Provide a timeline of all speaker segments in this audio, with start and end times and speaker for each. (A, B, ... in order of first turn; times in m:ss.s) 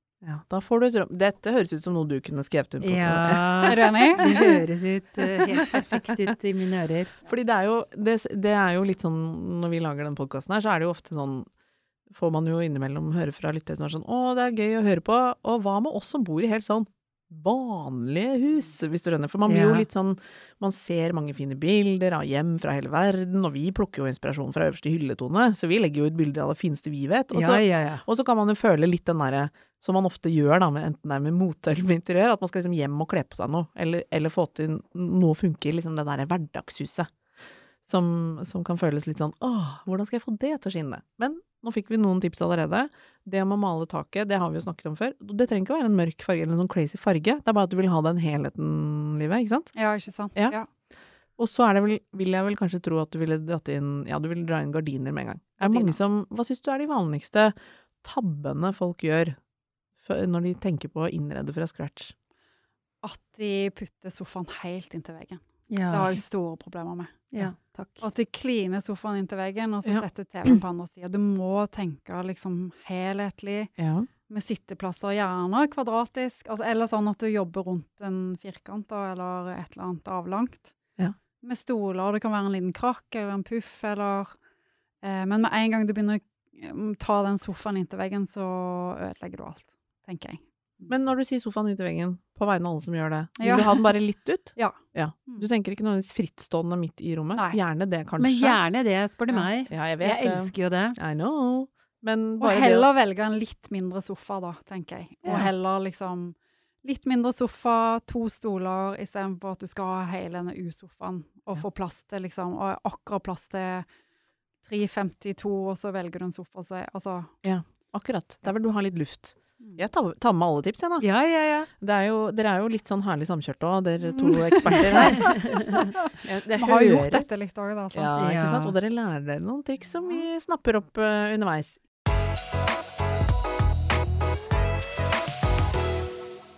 0:00.2-0:04.6 A
0:02.8-0:07.1 B
0:03.6-0:04.3 C
0:05.2-0:06.3 A
0:07.2-0:11.5 A
0:12.1-0:37.1 A
0:19.5-0:19.8 B
0:27.3-0:28.0 B
0:37.8-0:49.7 A
0:49.7-0:50.7 C
0:51.4-0:59.4 A
0:55.6-0:56.0 C
1:00.0-1:02.1 A
1:03.0-1:07.3 C
1:05.7-1:06.2 B
1:07.3-1:08.0 B
1:08.0-1:13.7 C
1:09.8-1:10.6 A
1:13.8-1:14.1 A
1:14.3-1:20.7 C
1:21.4-1:24.3 C
1:25.0-1:30.9 C
1:30.9-1:38.6 A
1:33.4-1:33.9 C
1:34.6-1:35.5 C
1:37.3-1:37.6 C
1:38.2-1:41.0 B
1:39.7-1:42.9 A
1:42.4-1:53.8 C
1:54.6-1:57.3 C
1:57.4-2:01.1 A
2:01.0-2:01.7 B
2:01.8-2:05.5 A
2:04.1-2:08.2 C
2:04.7-2:05.9 B
2:06.1-2:07.2 A
2:07.9-2:11.8 A
2:08.2-2:08.7 B